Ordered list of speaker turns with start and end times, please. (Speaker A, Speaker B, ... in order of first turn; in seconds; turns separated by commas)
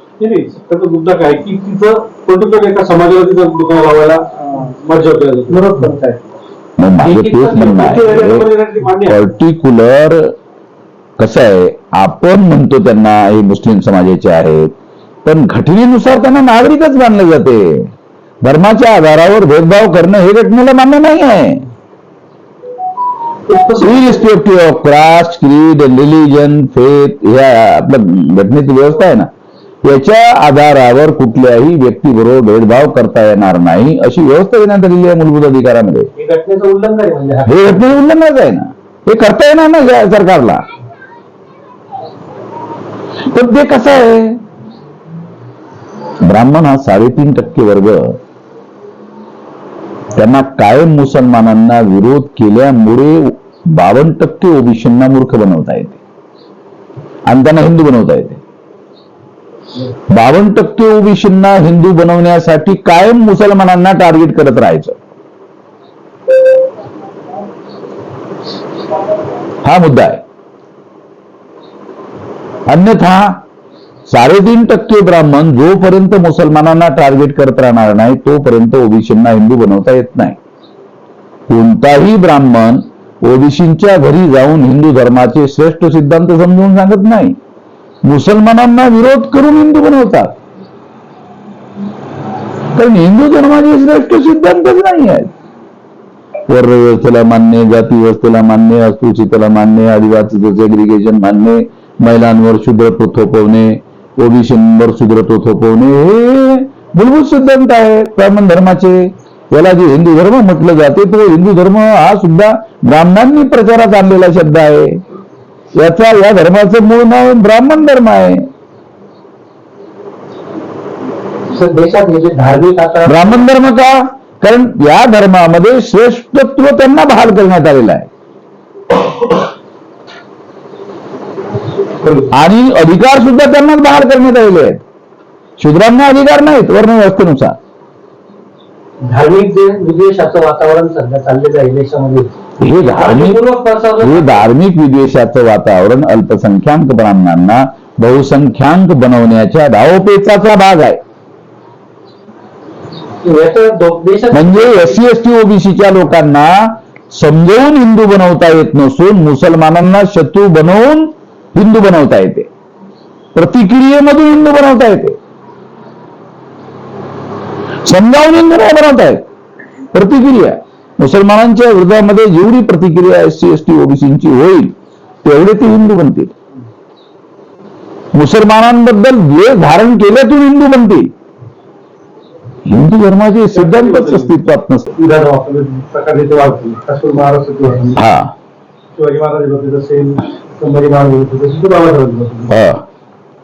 Speaker A: 0.2-6.0, Speaker B: 5.6-6.1, Speaker C: 6.8-8.5, Speaker A: 7.0-9.3, Speaker C: 9.0-10.3, Speaker C: 11.2-14.7, Speaker C: 15.2-21.6, Speaker C: 23.7-29.3, Speaker C: 29.8-36.1, Speaker B: 36.1-38.0, Speaker C: 37.5-40.6, Speaker C: 43.3-44.4, Speaker C: 46.2-48.2, Speaker C: 50.1-56.0, Speaker C: 57.3-58.4, Speaker C: 60.1-65.0, Speaker C: 69.6-70.2, Speaker C: 72.7-73.4, Speaker C: 74.1-80.4, Speaker C: 81.5-87.4, Speaker C: 88.0-90.3, Speaker C: 92.7-95.3, Speaker C: 96.5-115.0, Speaker C: 115.8-118.5, Speaker B: 121.5-123.5, Speaker C: 123.0-128.1, Speaker C: 132.3-134.8, Speaker C: 135.6-137.6, Speaker B: 139.0-144.5, Speaker C: 142.6-143.4, Speaker C: 144.0-151.0, Speaker B: 153.2-155.0, Speaker C: 154.3-162.5, Speaker C: 163.3-165.2, Speaker C: 167.8-169.2, Speaker C: 169.9-174.7, Speaker C: 175.2-176.3, Speaker C: 178.1-181.1, Speaker C: 182.7-184.9, Speaker A: 183.5-184.3, Speaker A: 184.9-188.0, Speaker C: 187.9-188.3, Speaker A: 188.9-192.5, Speaker C: 192.5-192.8